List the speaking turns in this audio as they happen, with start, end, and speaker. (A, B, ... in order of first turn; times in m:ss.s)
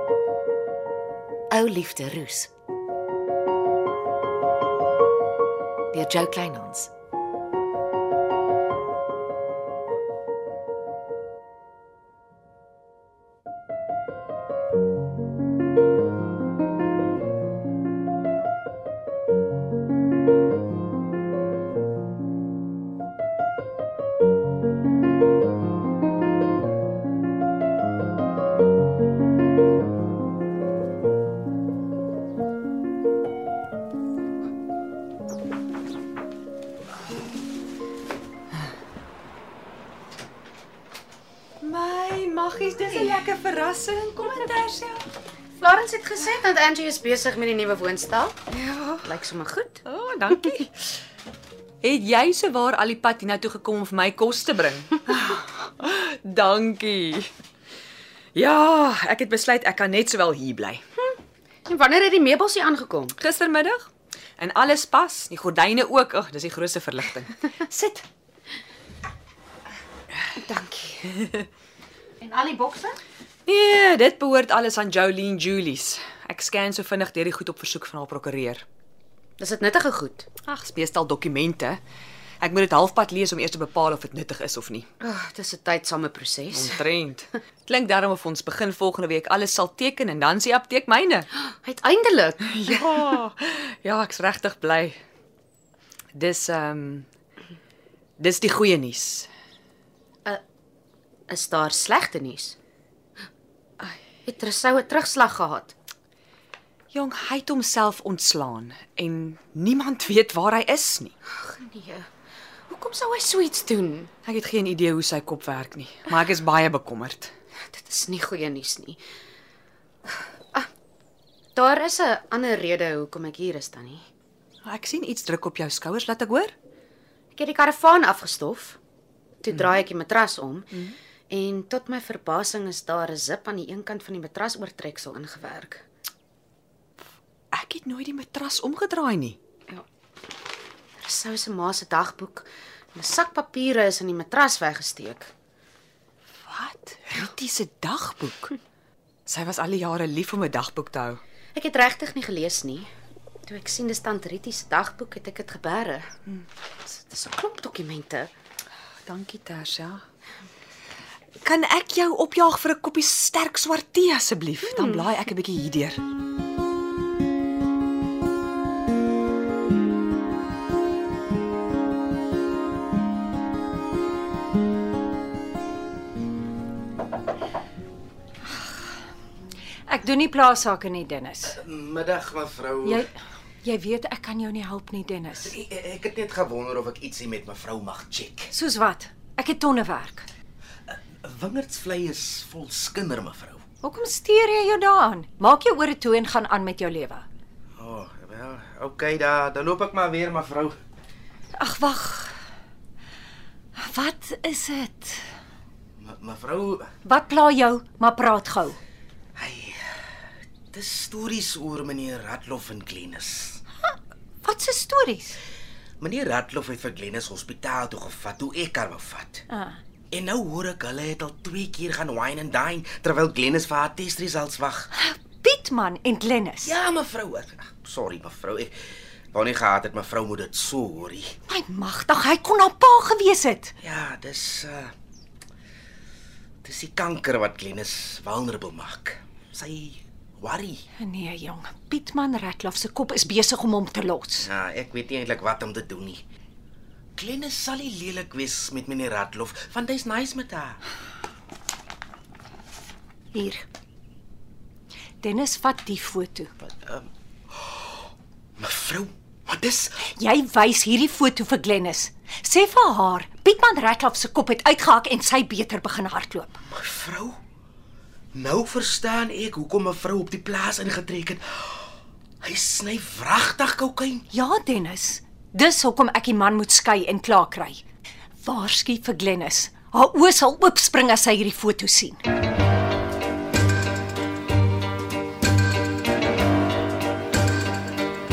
0:01.5-0:02.5 A
0:05.9-0:06.9 A
0:41.6-0:45.0 B
0:45.6-0:48.4 C
0:48.5-0:49.0 B
0:49.0-0:49.8 C
0:49.8-0:50.7 B
0:51.8-0:57.3 B
0:58.3-1:00.8 B
1:01.7-1:03.1 C
1:03.2-1:07.9 B
1:10.4-1:11.1 C
1:12.2-1:13.0 C
1:13.4-1:18.6 B
1:19.4-1:20.3 C
1:20.4-1:21.8 B
1:22.4-1:24.9 B
1:25.0-1:26.8 C
1:26.5-1:31.3 B
1:31.4-1:32.8 C
1:32.4-1:35.0 B
1:36.1-1:37.1 B
1:38.2-1:39.3 B
1:41.3-1:42.6 C
1:44.2-1:45.7 C
1:46.9-1:51.1 B
1:51.3-1:52.1 C
1:52.7-1:54.1 C
1:54.2-1:57.3 B
1:57.7-1:59.0 C
2:01.5-2:04.0 C
2:04.6-2:06.5 B
2:07.3-2:08.8 C
2:09.4-2:10.7 C
2:11.3-2:15.8 C
2:17.5-2:19.4 B
2:21.0-2:25.3 C
2:26.4-2:28.6 B
2:29.2-2:31.2 B
2:31.5-2:32.9 C
2:33.4-2:36.1 C
2:36.8-2:38.3 C
2:39.0-2:40.0 B
2:41.4-2:46.0 B
2:59.9-3:01.6 D
3:01.5-3:03.0 E
3:02.8-3:03.1 D
3:03.6-3:05.6 D
3:05.4-3:08.5 E
3:08.5-3:10.3 D
3:10.9-3:13.6 E
3:13.8-3:17.2 D
3:17.8-3:20.8 E
3:21.6-3:22.3 D
3:23.8-3:25.2 D
3:26.0-3:26.9 E
3:27.0-3:28.8 D
3:29.4-3:29.8 E
3:30.7-3:33.6 E
3:33.8-3:35.4 D
3:36.0-3:39.4 E
3:39.5-3:39.8 D
3:40.1-3:44.9 E
3:44.9-3:46.8 D
3:46.6-3:48.8 E
3:49.3-3:51.3 E
3:51.5-3:53.7 D
3:53.8-3:54.9 E
3:56.6-4:00.8 E
4:01.0-4:04.5 D
4:04.4-4:06.2 E
4:07.2-4:10.8 E
4:13.3-4:13.6 D
4:15.2-4:16.5 D
4:16.6-4:17.1 E
4:18.6-4:20.0 E
4:20.1-4:26.6 D
4:26.7-4:27.4 E
4:28.3-4:31.8 E
4:32.4-4:34.2 E
4:34.3-4:37.8 D
4:38.4-4:42.2 D